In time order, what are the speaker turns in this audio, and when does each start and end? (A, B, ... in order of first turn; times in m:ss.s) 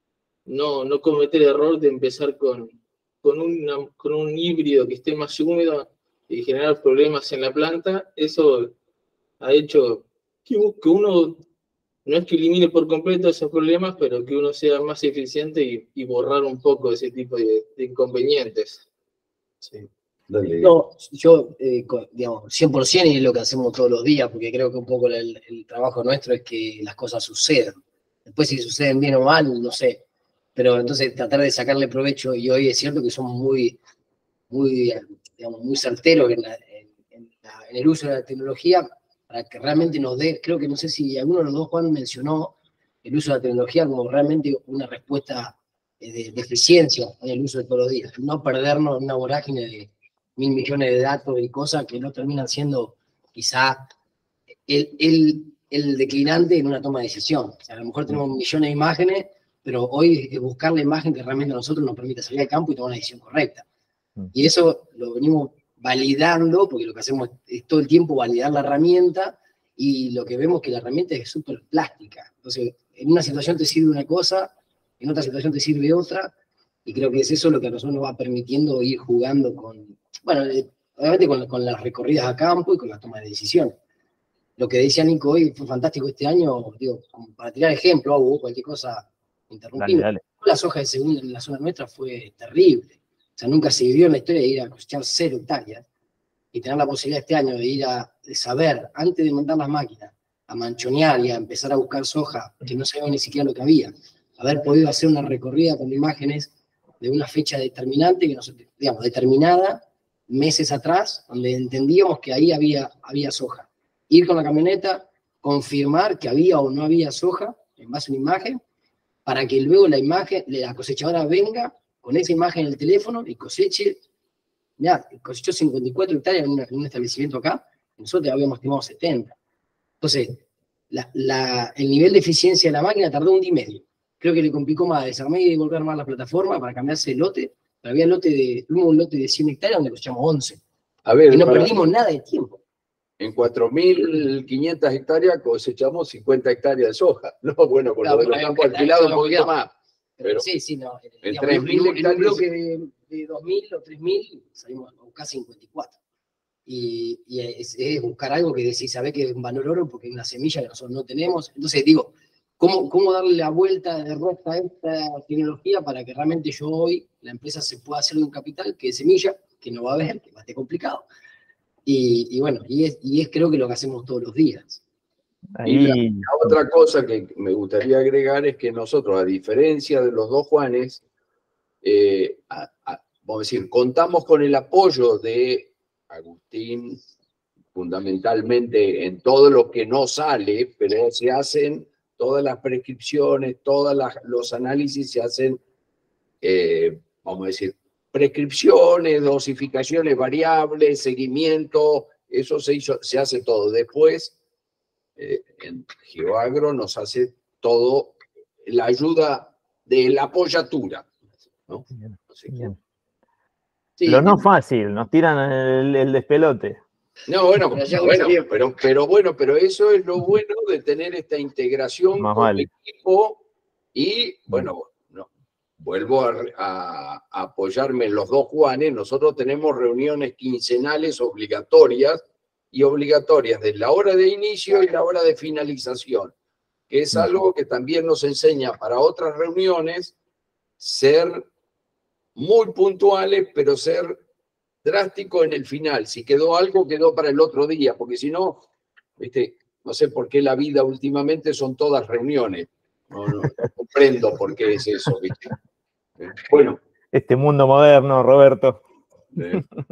0:00.5-0:08.7 A
0:09.4-0:11.4 A
0:12.1-0:18.8 A
0:20.3-0:20.7 B
0:20.6-0:30.0 C
0:30.6-0:33.8 C
0:34.5-0:53.9 C
0:54.7-1:03.6 C
1:04.3-1:16.3 C
1:16.9-1:23.8 C
1:24.6-1:35.8 C
1:29.8-1:30.2 D
1:36.5-1:58.6 C
1:59.3-2:04.0 C
2:04.8-2:09.3 C
2:10.0-2:20.6 C
2:21.1-2:21.8 B
2:21.3-2:22.6 C
2:23.2-2:29.7 B
2:28.0-2:29.6 C
2:30.2-2:36.0 C
2:31.2-2:32.4 B
2:36.7-2:51.1 C
2:51.9-2:54.8 C
2:55.6-2:56.3 D
2:55.6-3:01.0 B
3:01.8-3:07.0 B
3:07.7-3:15.6 B
3:16.4-3:24.4 B
3:25.2-3:31.1 B
3:31.7-3:32.6 B
3:32.0-3:32.8 D
3:34.0-3:34.4 B
3:34.1-3:36.8 D
3:37.3-3:43.4 B
3:37.8-3:38.4 C
3:42.2-3:42.7 D
3:43.9-3:45.3 B
3:45.8-3:56.3 B
3:56.9-4:00.2 B
4:00.8-4:01.5 B
4:02.4-4:04.2 B
4:04.8-4:08.6 B
4:09.2-4:15.5 B
4:16.2-4:16.8 B
4:17.1-4:18.8 D
4:19.4-4:19.6 B